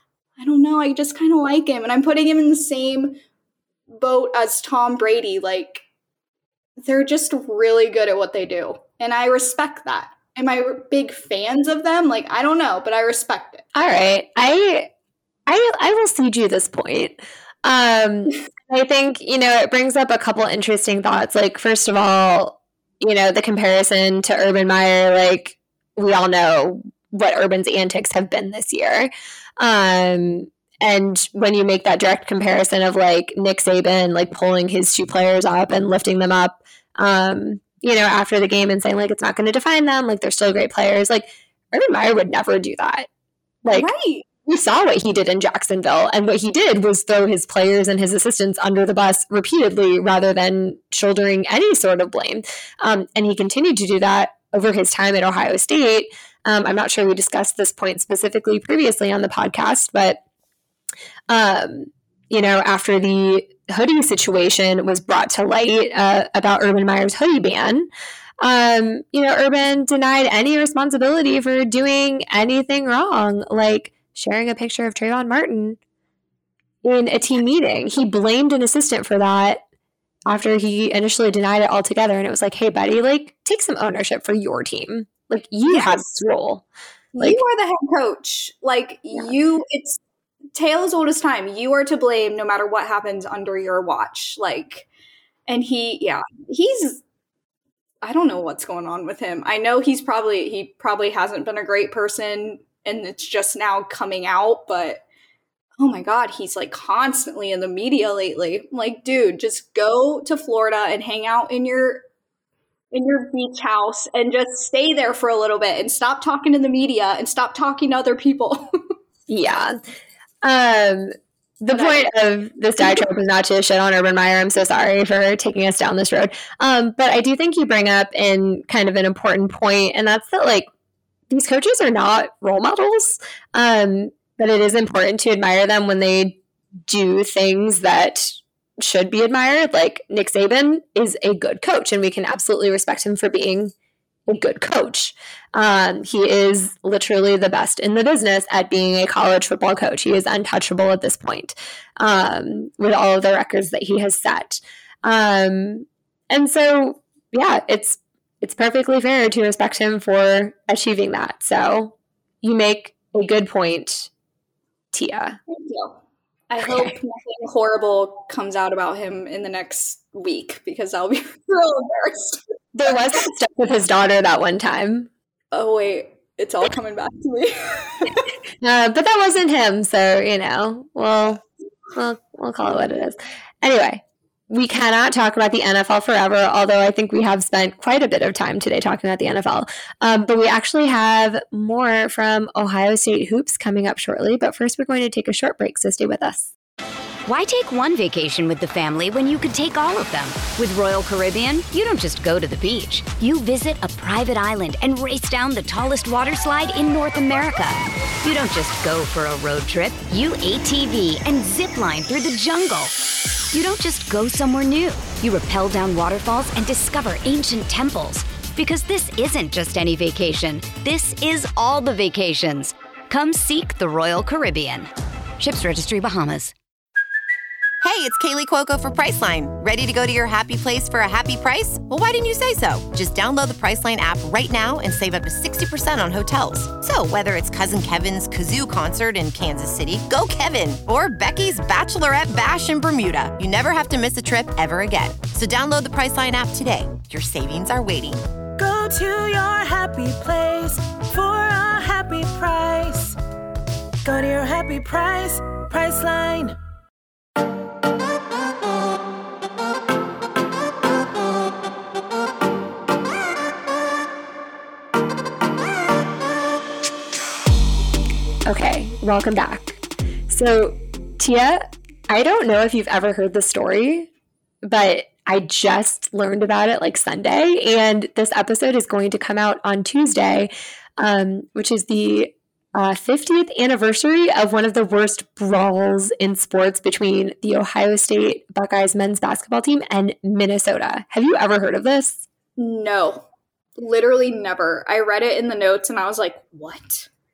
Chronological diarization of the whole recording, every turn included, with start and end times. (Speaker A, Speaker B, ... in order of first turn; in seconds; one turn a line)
Speaker A: 0.4-3.2
Speaker A: 3.9-5.8
Speaker A: 6.8-13.6
Speaker B: 13.7-14.9
Speaker B: 15.5-43.1
Speaker B: 43.6-43.9
Speaker A: 43.7-44.2
Speaker B: 44.5-60.2
Speaker B: 61.3-67.9
Speaker B: 68.4-75.8
Speaker B: 76.8-79.6
Speaker B: 80.3-86.6
Speaker A: 85.7-86.0
Speaker A: 87.2-90.0
Speaker A: 90.5-94.9
Speaker A: 95.5-97.0
Speaker A: 98.0-105.0
Speaker A: 105.8-112.0
Speaker A: 112.9-118.6
Speaker B: 119.3-119.8
Speaker B: 120.4-130.7
Speaker A: 121.7-122.1
Speaker B: 131.3-143.7
Speaker B: 144.3-164.1
Speaker B: 164.9-165.4
Speaker A: 165.5-166.0
Speaker A: 166.5-172.4
Speaker B: 166.6-166.9
Speaker B: 172.7-175.1
Speaker A: 175.5-178.3
Speaker B: 178.6-181.4
Speaker B: 181.9-196.5
Speaker C: 197.2-212.9
Speaker C: 213.5-226.5
Speaker D: 227.8-248.2
Speaker E: 248.6-253.2
Speaker E: 254.0-256.6
Speaker B: 268.5-274.1
Speaker B: 274.6-292.2
Speaker A: 292.6-293.2
Speaker A: 293.8-297.1